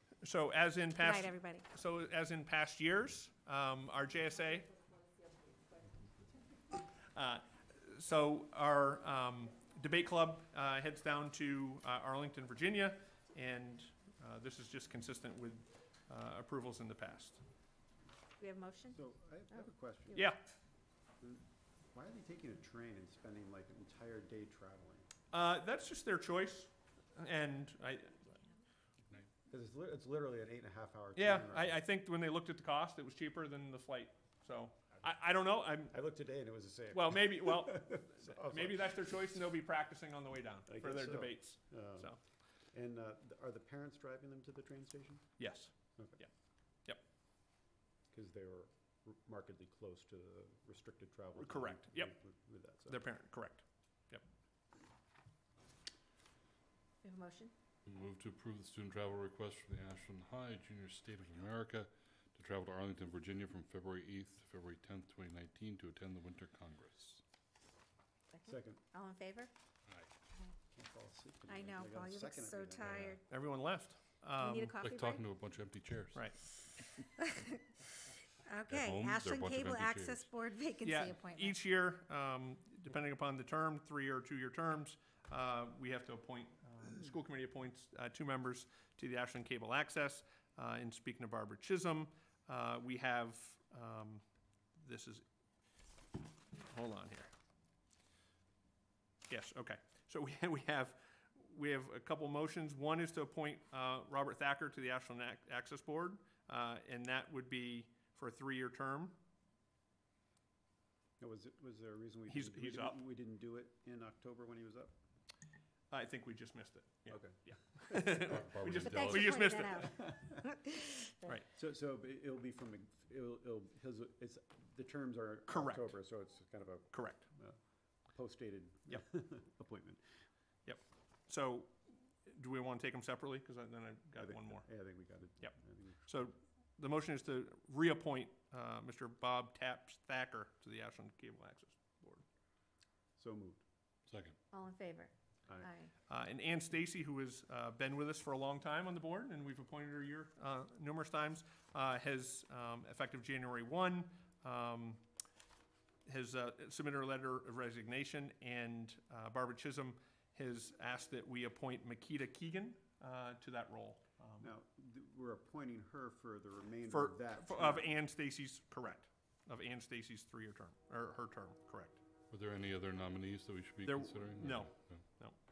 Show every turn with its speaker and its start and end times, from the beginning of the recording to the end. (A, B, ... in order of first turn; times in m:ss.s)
0:00.2-0:04.7 A
0:01.0-0:01.6 B
0:07.1-0:17.4 A
0:18.4-0:19.0 B
0:18.9-0:20.4 C
0:20.1-0:20.4 A
0:21.2-0:25.1 C
0:25.3-0:28.4 A
0:29.5-0:31.8 C
0:31.2-0:36.0 A
0:35.9-0:39.1 C
0:36.9-0:42.2 A
0:40.7-0:42.2 C
0:42.7-0:45.4 C
0:45.4-0:46.3 A
0:48.1-0:53.0 C
0:51.4-0:52.1 A
0:52.9-0:54.2 A
0:57.0-0:57.5 B
0:57.8-1:07.2 D
1:08.3-1:09.5 B
1:08.4-1:08.8 C
1:10.7-1:13.2 C
1:11.5-1:13.2 B
1:13.3-1:14.7 A
1:14.4-1:15.2 B
1:14.8-1:16.3 D
1:16.1-1:16.4 A
1:16.9-1:17.6 B
1:18.4-1:21.6 B
1:18.7-1:20.3 D
1:20.8-1:34.2 A
1:34.8-1:35.2 A
1:36.6-1:37.3 A
1:39.3-1:49.2 A
1:51.2-1:54.9 C
1:52.3-1:53.0 A
1:55.9-2:00.1 A
1:57.1-1:57.4 C
1:58.1-1:59.6 D
1:58.7-2:01.1 B
1:59.9-2:00.4 C
2:01.5-2:07.6 C
2:05.5-2:06.0 A
2:06.9-2:07.2 A
2:08.1-2:10.0 C
2:10.6-2:14.7 A
2:14.2-2:16.1 C
2:15.4-2:22.2 A
2:23.2-2:23.6 C
2:24.1-2:24.4 D
2:24.5-2:25.9 B
2:26.1-2:35.0 A
2:36.0-2:44.5 A
2:44.4-2:47.9 C
2:46.9-2:52.0 A
2:52.3-2:55.2 D
2:53.8-2:55.3 A